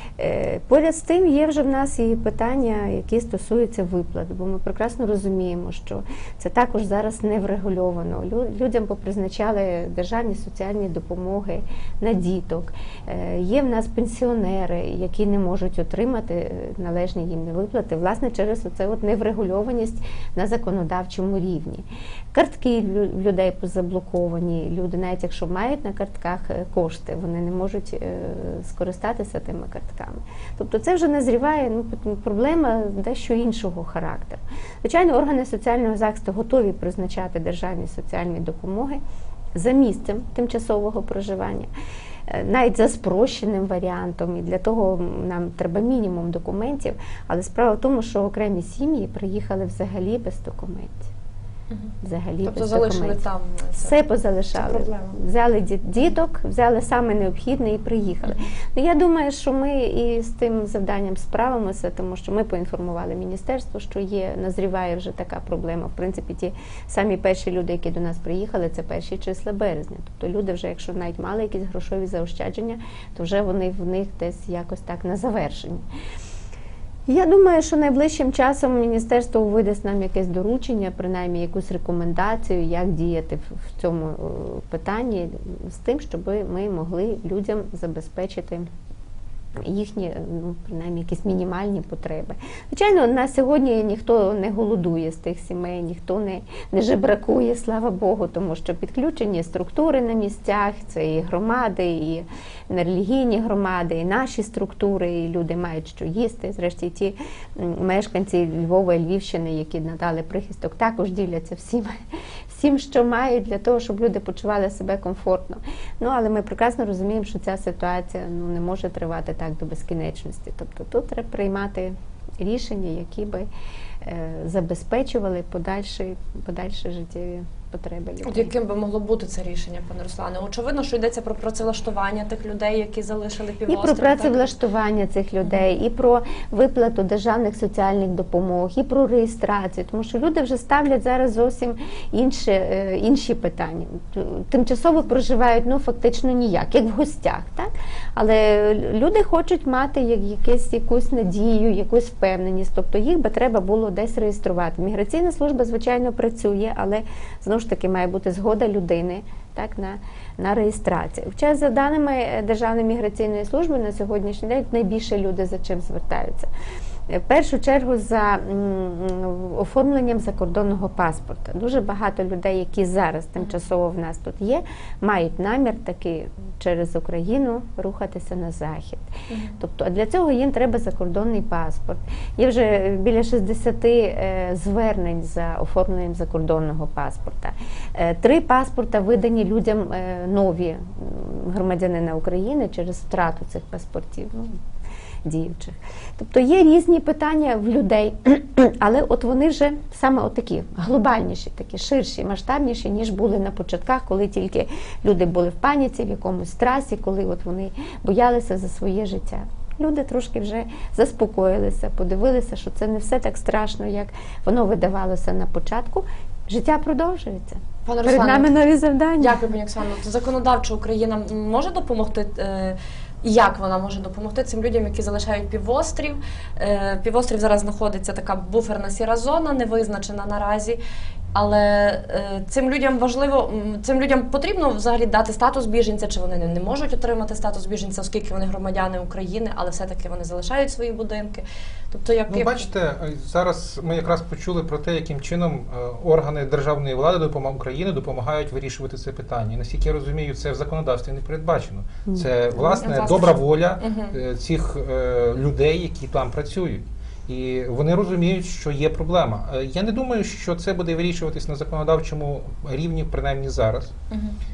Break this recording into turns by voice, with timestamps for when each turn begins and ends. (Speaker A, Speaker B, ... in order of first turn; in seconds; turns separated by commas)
Speaker A: 0.2-39.0, Speaker A: 39.5-41.7, Speaker A: 42.3-51.1, Speaker A: 52.0-53.2, Speaker B: 52.4-54.0, Speaker A: 53.8-75.8, Speaker B: 54.6-55.2, Speaker A: 77.1-88.7, Speaker A: 89.6-123.5, Speaker A: 124.0-128.5, Speaker B: 128.2-134.5, Speaker A: 133.7-166.5, Speaker A: 167.1-194.6, Speaker B: 179.3-179.6, Speaker A: 195.2-219.4, Speaker B: 217.9-218.5, Speaker B: 219.2-230.8, Speaker B: 231.3-242.7, Speaker C: 242.3-263.9, Speaker B: 252.6-254.1, Speaker B: 264.1-264.4